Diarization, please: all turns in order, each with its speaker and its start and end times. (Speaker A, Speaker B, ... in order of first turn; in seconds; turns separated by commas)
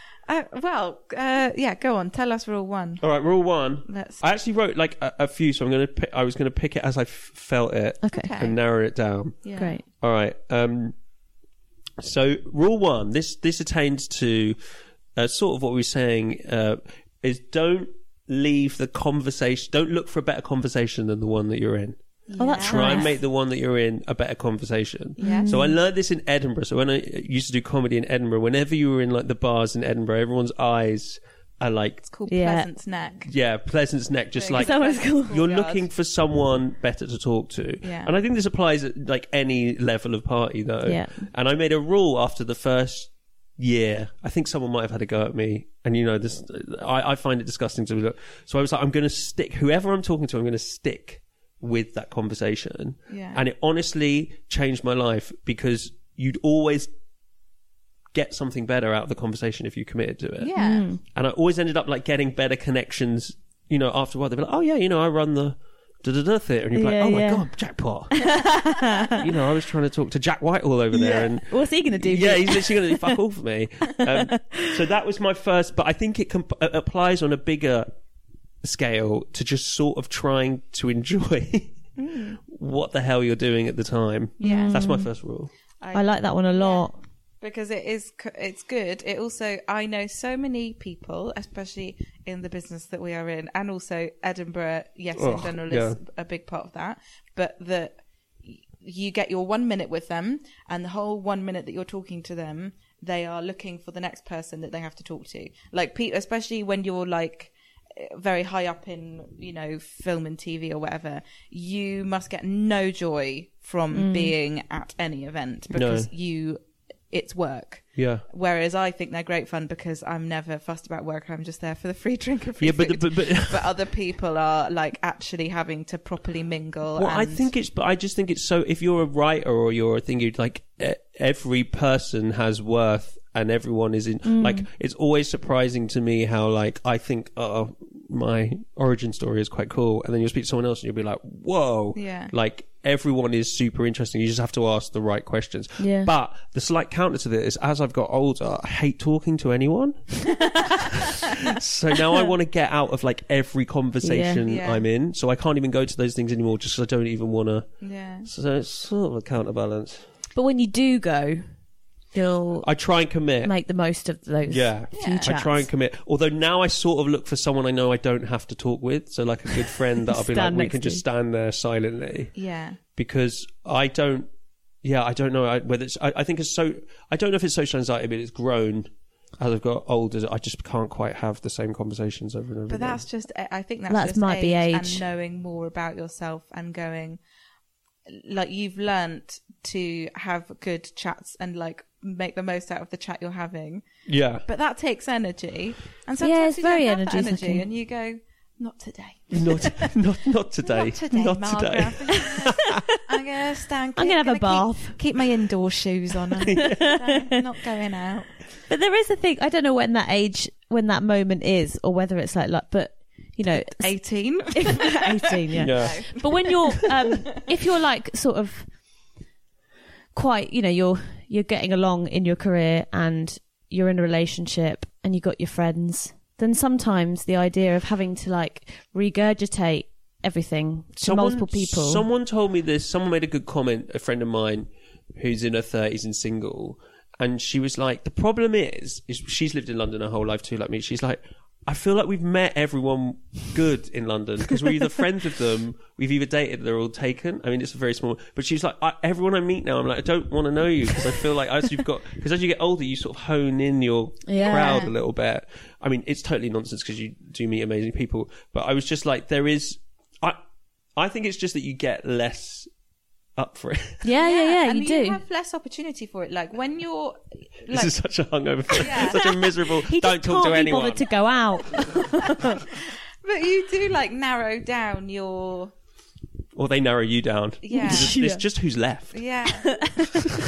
Speaker A: 0.3-3.0, Speaker B: 3.0-11.0, Speaker A: 3.9-4.2, Speaker C: 8.0-8.3, Speaker A: 8.1-8.6, Speaker A: 9.4-9.8, Speaker C: 9.6-9.8, Speaker B: 12.0-14.6, Speaker B: 15.2-22.0, Speaker A: 22.3-23.2, Speaker C: 22.4-23.2, Speaker B: 22.6-32.0, Speaker A: 25.2-25.5, Speaker C: 25.2-25.8, Speaker A: 32.1-33.3, Speaker C: 32.3-32.7, Speaker B: 33.3-56.9, Speaker A: 34.4-35.9, Speaker C: 34.5-35.4, Speaker A: 37.8-38.1, Speaker C: 40.9-41.3, Speaker A: 53.1-53.4, Speaker B: 58.1-68.5, Speaker A: 60.4-60.9, Speaker C: 60.6-61.0, Speaker C: 66.7-69.2, Speaker A: 68.2-69.2, Speaker B: 69.1-77.9, Speaker C: 70.9-73.2, Speaker C: 74.0-74.8, Speaker B: 78.6-81.8, Speaker A: 82.0-82.4, Speaker B: 82.5-85.5, Speaker A: 84.4-84.8, Speaker C: 84.4-85.1, Speaker A: 85.8-86.9, Speaker C: 85.9-87.0, Speaker A: 87.4-116.6, Speaker B: 95.2-96.0, Speaker C: 113.9-114.3, Speaker B: 115.7-116.1, Speaker A: 117.1-127.5, Speaker B: 118.0-118.2, Speaker B: 122.6-123.7, Speaker B: 127.0-157.7, Speaker C: 134.2-134.7, Speaker A: 141.9-142.3, Speaker C: 145.8-146.1, Speaker A: 150.4-150.7, Speaker C: 154.0-154.4, Speaker A: 154.4-154.9, Speaker A: 157.8-158.3, Speaker B: 158.2-160.0, Speaker C: 160.3-161.5, Speaker C: 162.1-162.8, Speaker B: 162.6-163.5, Speaker C: 163.4-165.7, Speaker B: 164.5-172.3, Speaker A: 164.9-165.4, Speaker C: 170.1-171.0, Speaker A: 172.3-172.8, Speaker B: 173.0-174.3, Speaker B: 174.8-183.0, Speaker A: 182.7-187.2, Speaker C: 183.9-185.1, Speaker A: 188.1-193.9, Speaker B: 194.1-194.5, Speaker A: 194.4-199.9, Speaker C: 196.2-197.7, Speaker B: 199.3-202.8, Speaker A: 200.6-208.3, Speaker C: 204.0-205.2, Speaker B: 206.5-206.8, Speaker C: 206.5-207.4, Speaker C: 208.7-214.0, Speaker A: 213.5-217.4, Speaker C: 214.6-218.7, Speaker B: 215.6-216.1, Speaker C: 220.1-232.1, Speaker B: 231.0-260.4, Speaker C: 254.3-254.9, Speaker A: 254.4-254.9, Speaker B: 261.0-262.7, Speaker B: 263.4-264.1, Speaker C: 264.0-265.2, Speaker A: 264.2-267.9, Speaker B: 267.7-271.1, Speaker A: 268.7-269.3, Speaker C: 269.1-272.6, Speaker B: 271.7-272.0, Speaker A: 273.2-275.7, Speaker B: 276.6-279.2, Speaker A: 277.6-278.2, Speaker C: 277.7-278.4, Speaker A: 279.1-279.9, Speaker C: 279.5-280.3